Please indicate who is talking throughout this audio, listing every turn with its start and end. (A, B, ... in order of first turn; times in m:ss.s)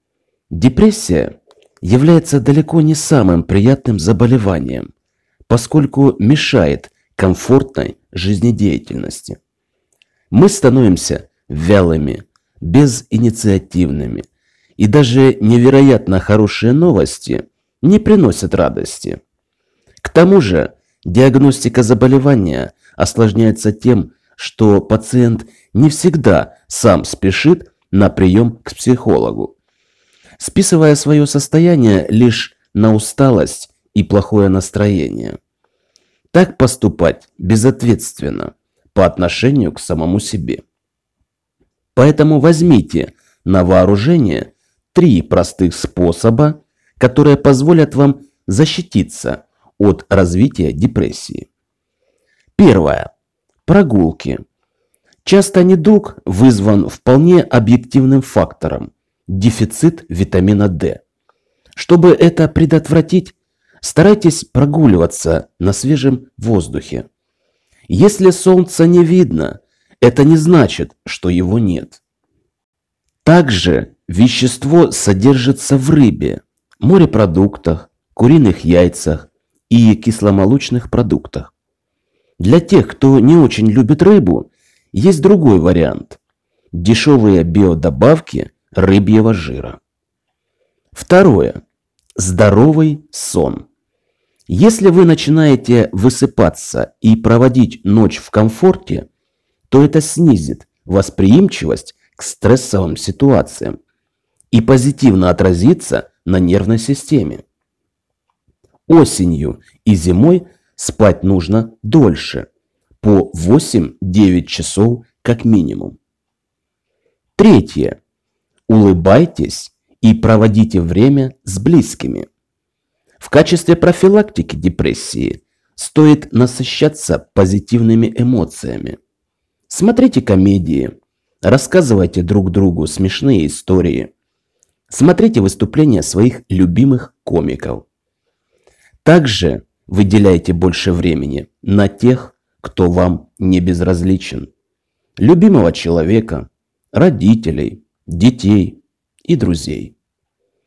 0:00.5-0:04.9 A
0:05.5-0:09.4 A
0:10.3-0:14.2 A
0:14.8-0:19.2 A
0:20.0-0:29.6 A
0:30.4-0:35.4 A
0:36.3-0:40.6 A
0:42.0-0:51.5 A
0:52.6-0:53.1 A
0:53.7-0:54.4 A
0:55.2-1:01.0 A
1:01.8-1:07.1 A
1:07.9-1:12.0 A
1:13.2-1:21.5 A
1:22.4-1:26.2 A
1:26.7-1:29.8 A
1:30.9-1:31.6 A
1:32.2-1:33.7 A
1:34.5-1:39.1 A
1:39.7-1:43.8 A
1:44.5-1:47.4 A
1:48.9-1:52.5 A
1:53.0-1:56.0 A
1:57.4-1:58.0 A
1:58.7-2:02.3 A
2:03.2-2:09.0 A
2:09.7-2:10.9 A
2:11.4-2:14.1 A
2:14.9-2:17.9 A
2:19.0-2:24.5 A
2:25.2-2:30.0 A